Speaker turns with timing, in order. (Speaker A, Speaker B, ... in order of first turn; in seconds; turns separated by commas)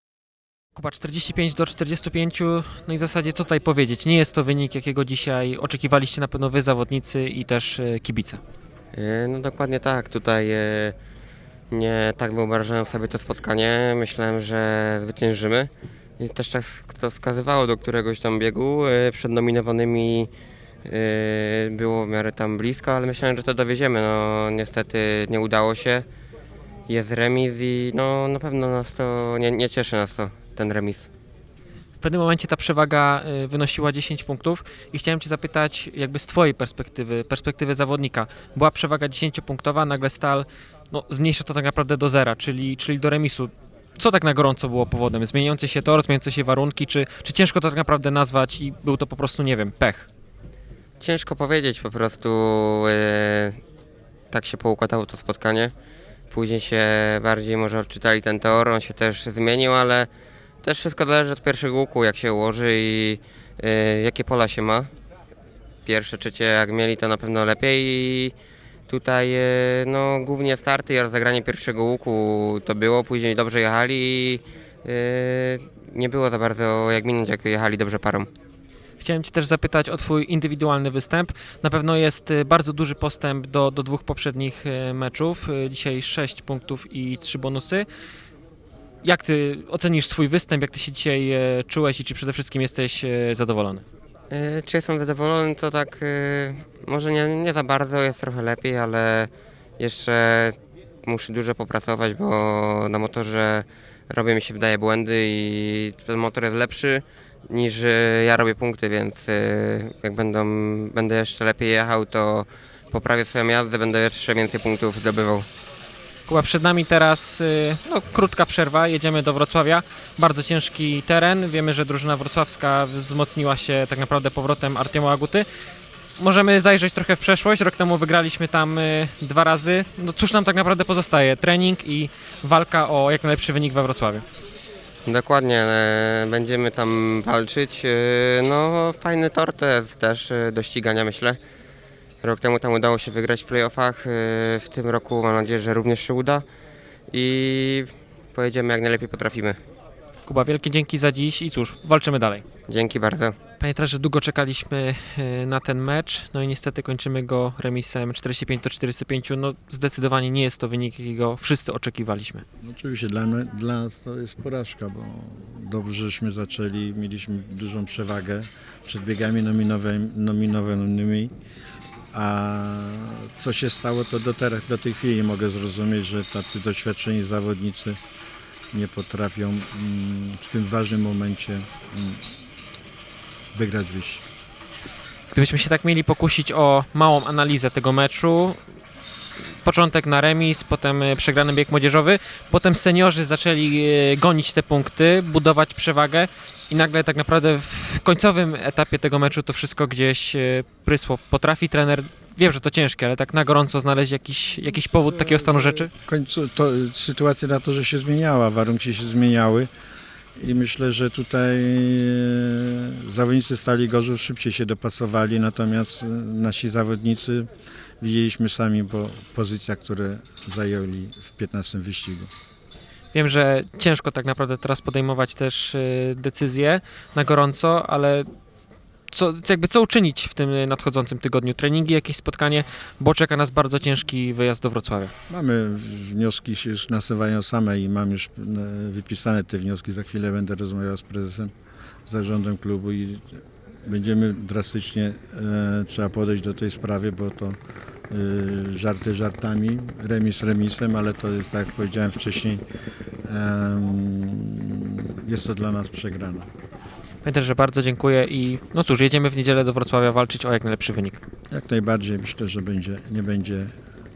Speaker A: 0.8-8.4, Speaker B: 8.9-10.9, Speaker B: 11.7-20.3, Speaker B: 20.9-26.1, Speaker B: 26.9-31.1, Speaker A: 32.0-50.1, Speaker B: 51.0-53.6, Speaker B: 54.3-55.7, Speaker B: 56.3-60.1, Speaker B: 60.6-64.9, Speaker B: 65.9-68.3, Speaker B: 68.9-78.3, Speaker A: 79.0-87.9, Speaker A: 89.0-93.8, Speaker B: 94.3-115.5, Speaker A: 116.3-125.5, Speaker A: 126.2-134.2, Speaker B: 135.1-141.4, Speaker B: 142.2-146.4, Speaker B: 147.1-149.6, Speaker A: 150.2-152.4, Speaker B: 152.7-153.4, Speaker A: 153.6-162.4, Speaker C: 162.6-171.3, Speaker C: 172.1-178.0, Speaker C: 178.7-182.2, Speaker C: 183.5-184.2, Speaker A: 185.3-188.6, Speaker A: 189.6-205.9, Speaker C: 206.0-209.7, Speaker C: 210.4-217.5, Speaker C: 218.0-222.3, Speaker A: 223.1-228.3, Speaker A: 229.1-235.1, Speaker C: 235.3-241.5, Speaker C: 242.1-243.2, Speaker C: 243.8-247.6, Speaker C: 248.1-252.6, Speaker C: 253.2-256.5, Speaker A: 257.2-261.2, Speaker C: 261.5-263.7